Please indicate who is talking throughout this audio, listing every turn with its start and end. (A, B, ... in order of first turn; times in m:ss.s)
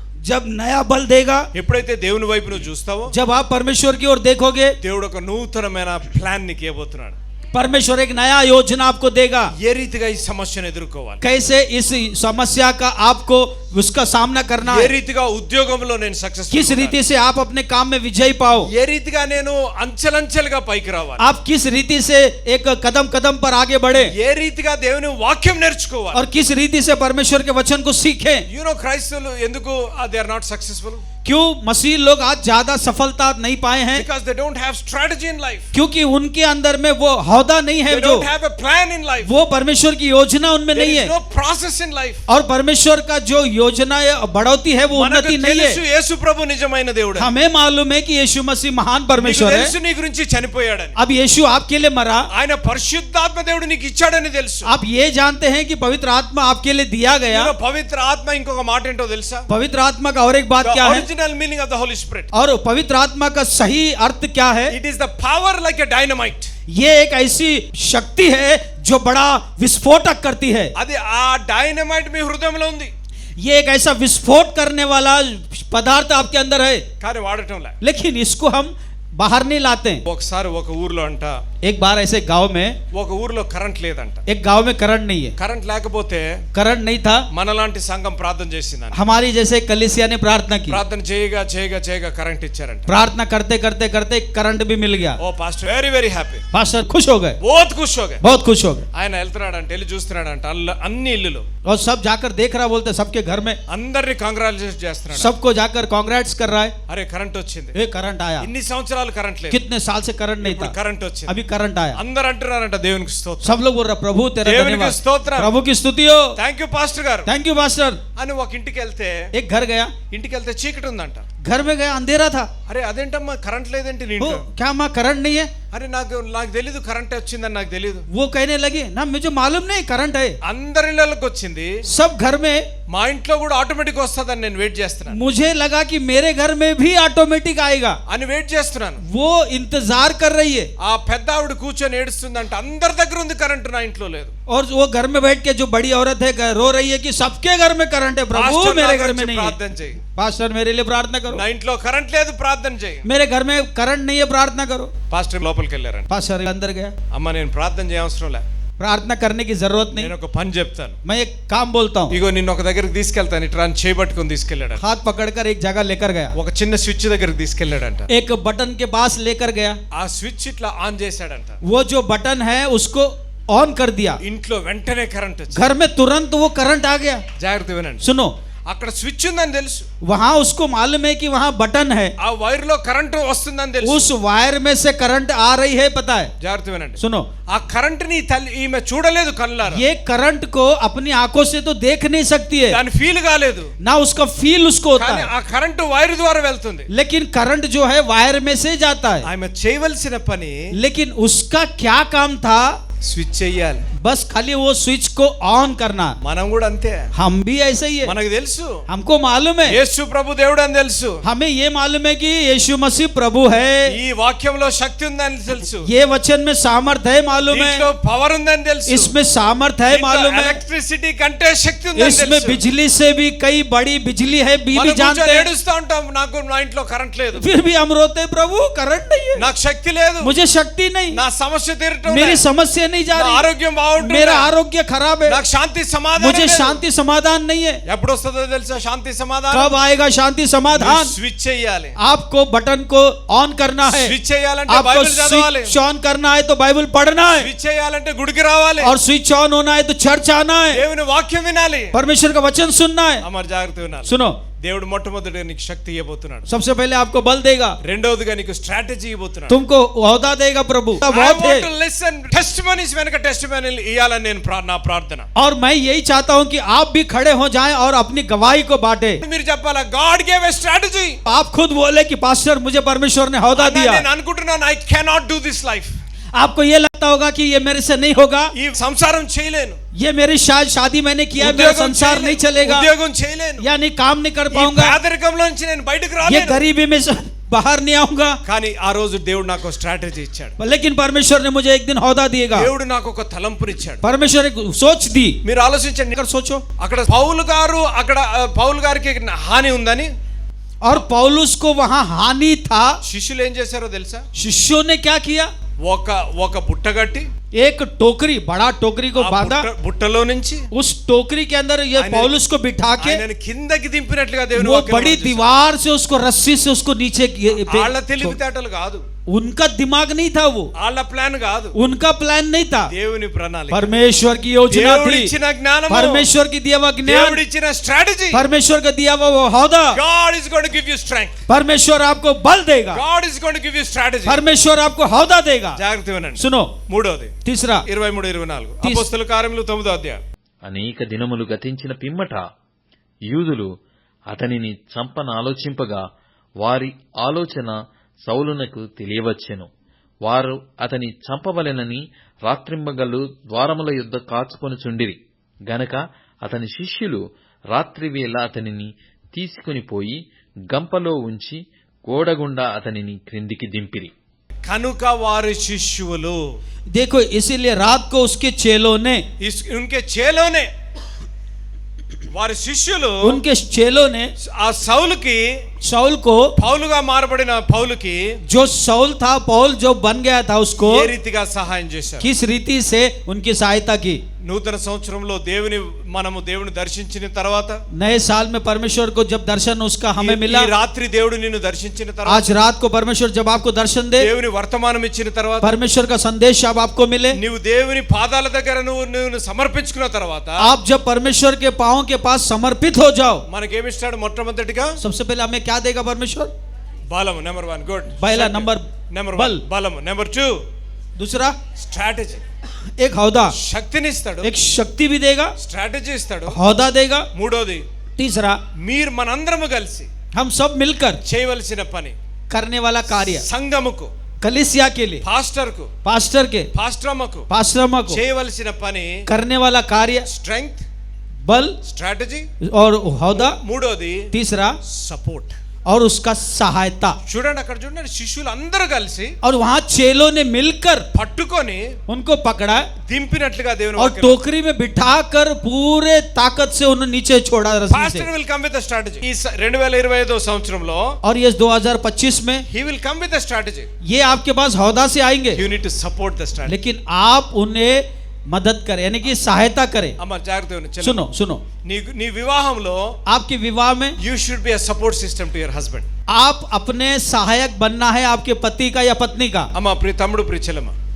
0:00.2-0:01.5 A
0:01.5-0:03.1 B
0:03.1-0:04.8 A
0:04.8-0:07.2 B
0:07.5-0:09.5 A
0:09.6-0:11.2 B
0:11.2-0:14.9 A
0:14.6-0:17.0 B
0:16.5-0:18.7 A
0:18.7-0:21.2 B
0:21.2-0:24.1 A
0:24.0-0:26.2 B
0:26.1-0:28.4 A
0:28.5-0:31.0 B
0:31.2-0:34.0 A
0:33.9-0:35.7 B
0:35.7-0:38.2 A
0:37.9-0:39.3 B
0:39.2-0:41.1 A
0:40.7-0:42.2 B
0:42.3-0:45.8 A
0:44.9-0:47.3 B
0:47.2-0:49.7 A
0:49.2-0:51.0 B
0:51.0-0:52.3 A
0:52.3-0:54.7 B
0:54.7-0:57.5 A
0:57.3-0:59.5 B
0:59.5-1:01.0 A
1:00.6-1:02.3 B
1:02.3-1:04.7 A
1:04.7-1:06.5 B
1:06.7-1:10.7 A
1:10.8-1:12.9 B
1:13.4-1:16.8 A
1:17.0-1:17.8 B
1:17.8-1:20.0 A
1:20.1-1:21.4 B
1:21.6-1:22.8 A
1:22.9-1:24.2 B
1:24.3-1:25.3 A
1:25.4-1:26.4 B
1:26.6-1:27.2 A
1:27.3-1:29.0 B
1:28.9-1:30.8 A
1:30.7-1:32.9 B
1:32.9-1:35.2 A
1:35.2-1:36.4 B
1:36.5-1:37.4 A
1:37.4-1:38.2 B
1:38.2-1:38.9 A
1:38.9-1:41.5 B
1:41.7-1:43.6 A
1:43.7-1:45.3 B
1:45.2-1:46.8 A
1:46.9-1:47.8 B
1:47.8-1:48.5 A
1:48.4-1:49.6 B
1:49.5-1:50.7 A
1:50.4-1:51.3 B
1:51.3-1:52.0 A
1:52.0-1:53.6 B
1:53.4-1:56.3 A
1:54.4-1:55.5 B
1:56.4-1:57.3 B
1:57.3-1:58.0 A
1:58.2-1:59.3 B
1:59.3-1:59.9 A
2:00.1-2:01.2 B
2:01.4-2:02.5 A
2:02.7-2:04.4 B
2:04.2-2:05.5 A
2:05.7-2:08.1 B
2:08.1-2:10.4 A
2:10.4-2:11.8 B
2:11.9-2:12.7 A
2:12.9-2:15.2 B
2:15.1-2:18.0 A
2:18.1-2:19.0 B
2:19.1-2:20.7 A
2:20.8-2:24.3 B
2:24.5-2:29.6 A
2:28.4-2:30.0 B
2:30.1-2:31.4 A
2:31.3-2:33.0 B
2:33.0-2:34.9 A
2:35.1-2:36.1 B
2:36.1-2:36.9 A
2:37.1-2:38.4 B
2:38.8-2:40.1 A
2:39.9-2:41.0 B
2:41.0-2:42.2 A
2:42.1-2:44.8 B
2:44.8-2:46.3 A
2:46.4-2:48.1 B
2:48.1-2:49.8 A
2:49.9-2:51.6 B
2:51.6-2:54.2 A
2:54.2-2:55.7 B
2:55.5-2:57.2 A
2:57.4-2:58.0 B
2:58.0-2:58.3 A
2:58.7-2:59.9 B
3:00.0-3:02.1 A
3:02.2-3:04.1 B
3:03.8-3:06.3 A
3:06.4-3:07.0 B
3:07.0-3:07.3 A
3:07.5-3:09.8 B
3:09.7-3:12.8 A
3:12.7-3:13.7 B
3:13.8-3:15.3 A
3:15.0-3:16.9 B
3:16.9-3:19.3 A
3:19.2-3:20.6 B
3:20.8-3:22.7 A
3:23.0-3:23.8 B
3:24.0-3:26.2 A
3:26.2-3:27.1 B
3:27.2-3:28.1 A
3:28.0-3:28.8 B
3:28.9-3:29.8 A
3:29.6-3:31.2 B
3:31.2-3:33.9 A
3:33.9-3:35.9 B
3:35.8-3:37.9 A
3:37.4-3:39.1 B
3:38.9-3:40.6 A
3:39.9-3:42.6 B
3:42.0-3:45.5 A
3:44.7-3:47.5 B
3:47.4-3:49.4 A
3:49.4-3:50.3 B
3:50.2-3:51.2 A
3:51.1-3:52.4 B
3:52.1-3:53.4 A
3:53.1-3:54.5 B
3:54.0-3:55.4 A
3:55.3-3:56.8 B
3:56.2-3:57.8 A
3:57.9-3:59.7 B
3:59.5-4:01.1 A
4:00.7-4:01.9 B
4:02.0-4:04.1 A
4:03.8-4:05.8 B
4:04.7-4:07.5 A
4:07.4-4:08.9 B
4:08.8-4:10.8 A
4:10.7-4:12.0 B
4:11.9-4:13.2 A
4:13.2-4:16.5 B
4:14.0-4:14.4 A
4:16.5-4:17.8 A
4:17.8-4:19.6 B
4:19.5-4:21.7 A
4:21.0-4:25.3 B
4:25.4-4:29.2 A
4:29.2-4:31.2 B
4:31.3-4:34.0 A
4:33.6-4:35.9 B
4:36.4-4:38.5 A
4:38.6-4:39.8 B
4:40.0-4:42.9 A
4:41.4-4:43.7 B
4:43.6-4:45.0 A
4:44.5-4:46.6 B
4:46.2-4:48.4 A
4:48.5-4:50.5 B
4:50.6-4:52.7 A
4:52.5-4:54.0 B
4:54.0-4:55.4 A
4:55.4-4:56.2 B
4:56.2-4:56.6 A
4:56.8-5:00.1 B
5:00.8-5:03.0 A
5:03.0-5:04.2 B
5:04.4-5:05.5 A
5:05.8-5:07.3 B
5:07.6-5:09.7 A
5:09.2-5:10.6 B
5:10.7-5:13.2 A
5:12.0-5:12.3 B
5:13.0-5:15.5 B
5:14.6-5:18.4 A
5:17.6-5:19.0 B
5:19.3-5:20.7 A
5:20.8-5:21.8 B
5:21.8-5:22.9 A
5:22.9-5:23.9 B
5:23.7-5:25.3 A
5:24.7-5:26.3 B
5:25.9-5:27.4 A
5:27.1-5:28.4 B
5:28.3-5:30.0 A
5:29.9-5:31.4 B
5:31.5-5:33.0 A
5:32.9-5:34.4 B
5:34.2-5:35.8 A
5:35.8-5:37.3 B
5:36.4-5:36.7 A
5:37.4-5:37.8 A
5:37.9-5:40.2 B
5:38.8-5:39.1 A
5:40.6-5:42.5 C
5:43.3-5:43.7 C
5:44.3-5:46.0 C
5:46.6-5:49.7 C
5:50.2-6:04.1 C
6:04.6-6:06.6 B
6:06.9-6:09.2 A
6:09.4-6:10.7 B
6:12.3-6:13.4 B
6:13.2-6:14.3 A
6:14.4-6:15.6 B
6:15.8-6:16.5 A
6:16.6-6:18.4 B
6:18.5-6:21.1 A
6:20.8-6:22.3 B
6:22.2-6:24.2 A
6:24.4-6:27.8 B
6:27.9-6:30.7 A
6:30.2-6:32.5 B
6:32.3-6:34.3 A
6:34.2-6:35.7 B
6:35.6-6:37.4 A
6:37.3-6:40.6 B
6:40.6-6:43.4 A
6:43.5-6:45.0 B
6:45.0-6:46.5 A
6:47.1-6:50.5 B
6:48.2-6:49.6 A
6:51.2-6:51.6 A
6:51.8-6:52.4 B
6:53.0-6:53.5 A
6:53.5-6:54.5 B
6:54.4-6:55.5 A
6:55.6-6:56.6 B
6:56.5-6:57.3 A
6:57.4-6:57.8 B
6:58.2-6:58.6 A
6:58.8-7:00.1 B
7:00.3-7:01.2 A
7:01.2-7:02.2 B
7:02.5-7:03.4 A
7:03.1-7:04.1 B
7:04.4-7:05.2 A
7:05.2-7:05.9 B
7:06.0-7:06.7 A
7:06.7-7:07.5 B
7:07.5-7:08.2 A
7:08.1-7:09.2 B
7:09.3-7:10.3 A
7:10.3-7:10.8 B
7:11.5-7:11.8 A
7:11.8-7:12.5 B
7:12.6-7:13.6 A
7:13.4-7:14.3 B
7:14.3-7:14.8 A
7:14.9-7:15.6 B
7:15.9-7:17.2 A
7:17.3-7:19.4 B
7:19.4-7:21.1 A
7:21.1-7:21.9 B
7:22.1-7:22.9 A
7:23.1-7:24.4 B
7:24.0-7:28.3 A
7:27.9-7:31.1 B
7:31.2-7:32.6 A
7:32.7-7:33.9 B
7:34.0-7:35.6 A
7:35.5-7:36.8 B
7:36.7-7:40.2 A
7:40.2-7:41.3 B
7:41.0-7:41.6 A
7:41.8-7:43.2 B
7:43.3-7:44.2 A
7:44.2-7:46.1 B
7:46.3-7:49.7 A
7:49.8-7:51.0 B